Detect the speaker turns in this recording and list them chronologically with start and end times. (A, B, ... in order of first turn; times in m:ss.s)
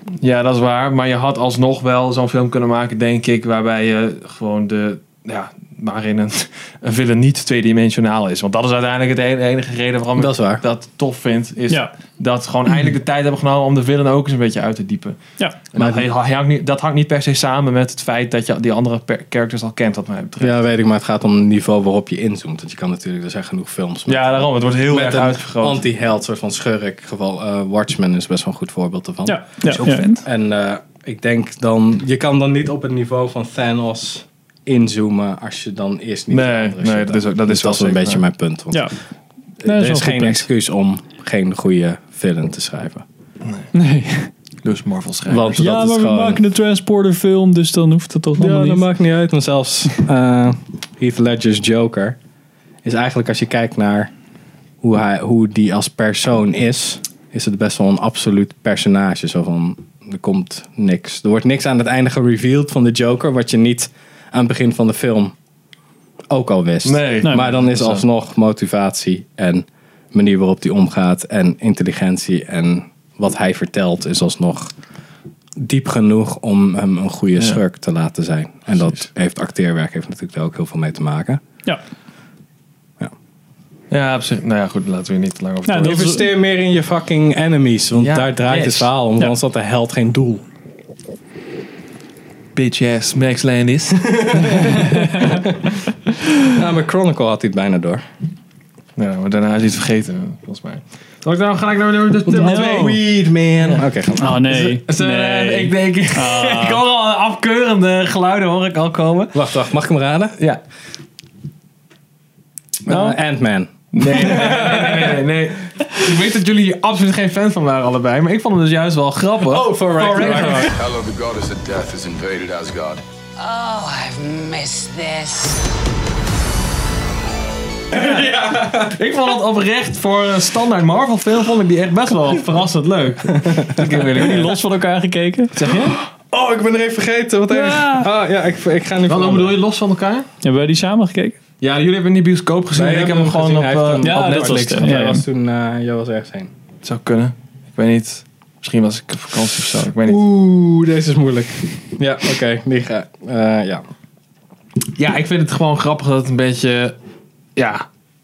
0:00.2-0:15.2 A
0:10.2-0:10.6 B
0:15.7-0:20.6 A
0:15.8-0:16.1 B
0:20.4-0:38.9 B
0:24.1-0:25.8 A
0:29.3-0:30.2 C
0:29.6-0:30.2 A
0:36.3-0:38.2 A
0:39.6-0:43.0 B
0:39.6-0:40.5 C
0:43.7-0:44.3 C
0:44.6-0:45.6 A
0:45.3-0:46.4 B
0:45.6-0:48.8 C
0:48.4-0:52.2 B
0:52.8-0:54.1 B
0:54.8-1:05.4 B
1:06.3-1:14.7 B
1:06.8-1:08.0 A
1:15.6-1:21.4 B
1:23.9-1:26.1 A
1:25.7-1:26.3 C
1:25.8-1:30.4 B
1:28.0-1:28.9 A
1:32.6-1:34.8 A
1:34.1-1:35.6 B
1:34.8-1:35.4 C
1:36.5-1:38.0 B
1:39.0-1:43.1 A
1:42.2-1:44.5 B
1:42.3-1:43.0 C
1:44.2-1:46.8 C
1:44.5-1:49.4 A
1:49.3-1:50.4 B
1:52.9-1:55.2 B
1:52.9-1:53.2 A
1:53.9-2:00.8 A
1:59.4-2:00.8 B
2:00.7-2:03.0 D
2:03.4-2:05.6 E
2:07.9-2:09.0 B
2:07.9-2:14.6 A
2:13.4-2:13.9 B
2:14.2-2:15.7 C
2:15.6-2:16.0 A
2:16.2-2:19.6 B
2:17.5-2:18.1 C
2:19.1-2:20.3 A
2:20.4-2:21.4 C
2:21.6-2:24.9 A
2:22.7-2:26.5 B
2:24.0-2:25.2 C
2:26.8-2:30.2 A
2:30.0-2:33.9 B
2:35.0-2:37.0 A
2:37.6-2:37.9 A